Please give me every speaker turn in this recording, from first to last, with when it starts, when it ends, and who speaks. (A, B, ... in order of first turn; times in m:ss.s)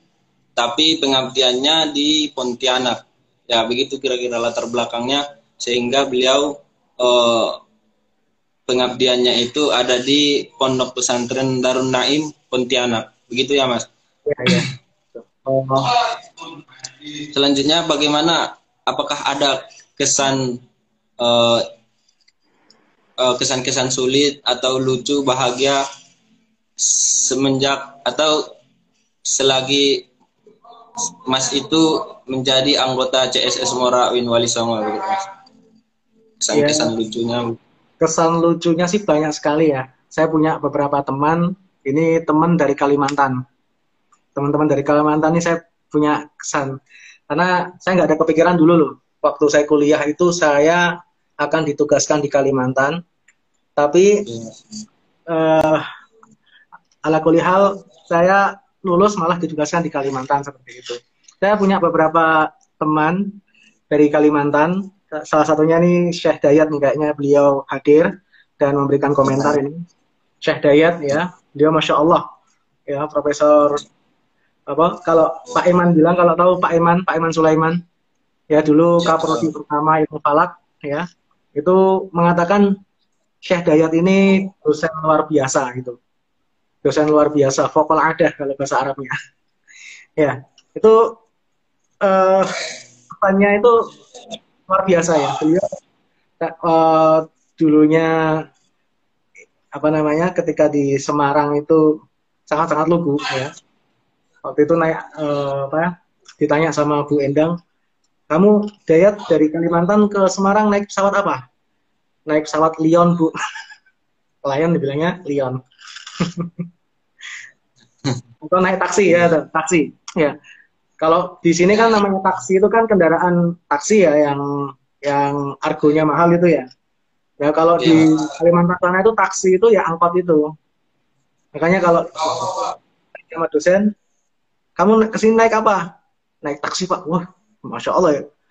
0:00.6-0:07.6 A
0:08.7-0:13.9 A
0:14.3-0:15.9 B
0:17.2-0:20.6 A
0:21.2-0:21.6 A
0:23.2-0:25.8 A
0:26.8-0:28.5 A
0:29.3-0:30.1 A
0:31.0-0:35.3 A
0:36.4-0:37.6 A
0:36.5-0:36.9 B
0:38.0-0:43.4 B
0:44.4-0:46.8 B
0:47.3-0:50.9 B
0:51.4-0:53.0 B
0:53.8-0:54.2 B
0:54.3-0:54.6 A
0:55.3-0:55.9 B
0:57.0-1:03.4 B
1:03.9-1:09.8 B
1:10.4-1:12.3 B
1:12.9-1:13.8 B
1:14.7-1:17.8 B
1:18.5-1:22.7 B
1:23.5-1:26.0 B
1:26.8-1:29.2 B
1:30.2-1:31.1 B
1:32.0-1:32.6 B
1:33.1-1:33.8 B
1:34.7-1:35.8 B
1:36.4-1:38.4 B
1:39.7-1:41.8 B
1:42.5-1:43.5 B
1:44.4-1:47.6 B
1:48.3-1:51.4 B
1:52.3-1:53.3 B
1:54.4-1:55.6 B
1:56.2-1:56.5 B
1:58.4-2:00.4 B
2:01.0-2:06.7 B
2:07.4-2:10.5 B
2:07.8-2:08.1 A
2:11.6-2:12.7 B
2:13.3-2:13.9 B
2:14.8-2:15.8 B
2:16.4-2:18.2 B